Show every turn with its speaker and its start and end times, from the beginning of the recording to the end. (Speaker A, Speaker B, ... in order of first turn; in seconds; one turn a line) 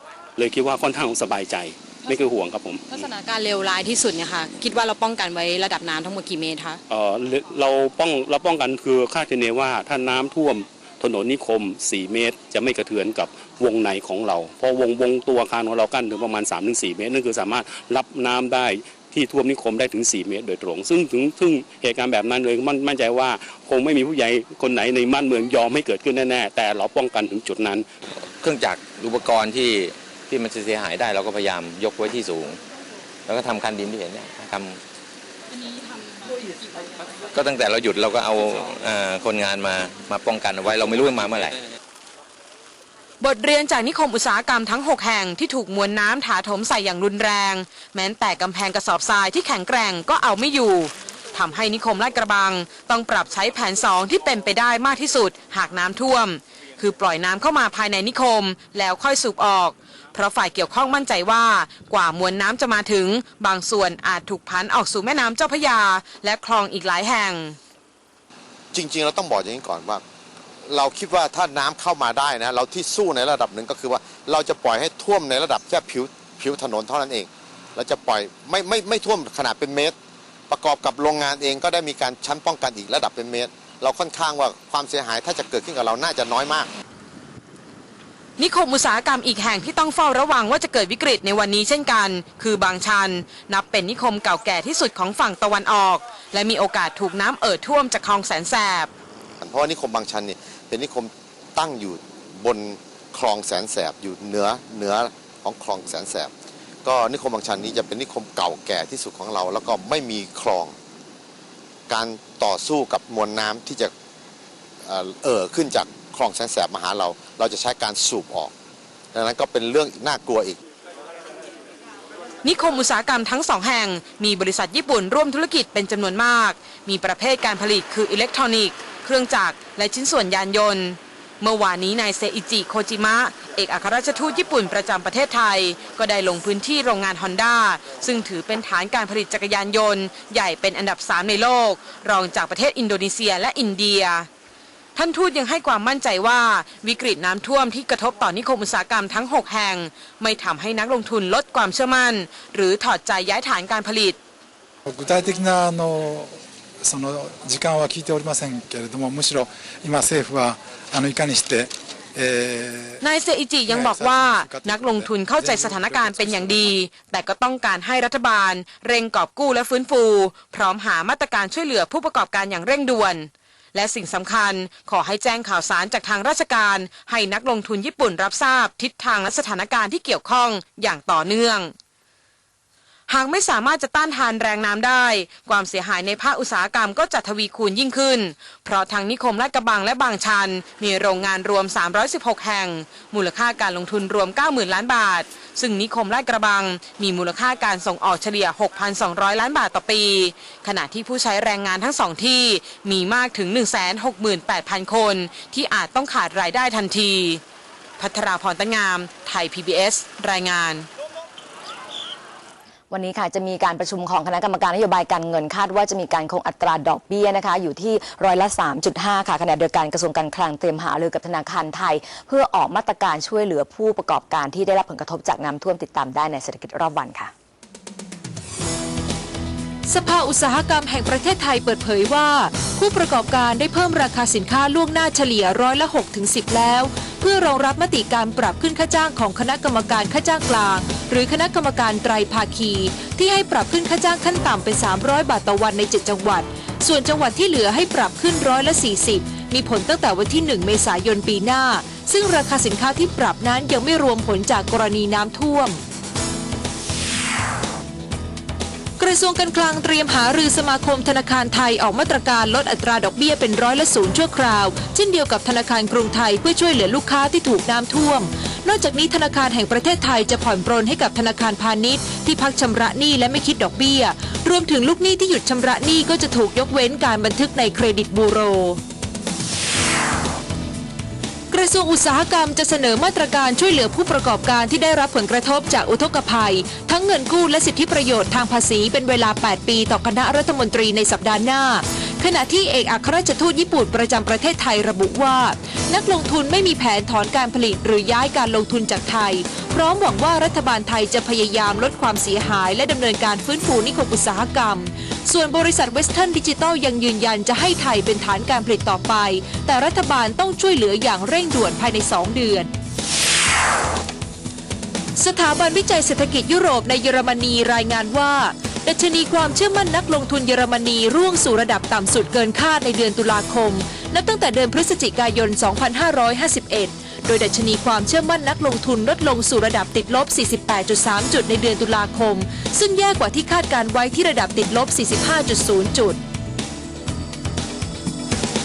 Speaker A: 0.4-2.8
Speaker B: 2.9-6.8
Speaker A: 6.9-27.9
Speaker C: 28.4-32.6
Speaker C: 33.2-34.8
Speaker C: 37.3-41.6
Speaker D: 43.2-67.6
Speaker E: 68.7-70.0
Speaker E: 70.7-79.9
Speaker E: 80.5-86.7
Speaker D: 88.4-98.9
Speaker E: 99.4-106.3
Speaker E: 106.8-110.7
Speaker E: 111.9-113.9
Speaker E: 114.8-118.5
Speaker E: 119.1-120.6
Speaker D: 122.4-144.3
Speaker D: 144.9-154.2
Speaker F: 154.8-163.0
Speaker D: 163.0-181.7
Speaker F: 163.7-166.7
Speaker D: 183.1-207.4
Speaker D: 208.0-210.9
Speaker G: 212.9-227.3
Speaker H: 229.9-255.8
Speaker H: 259.0-278.8
Speaker H: 281.5-312.7
Speaker H: 315.2-336.2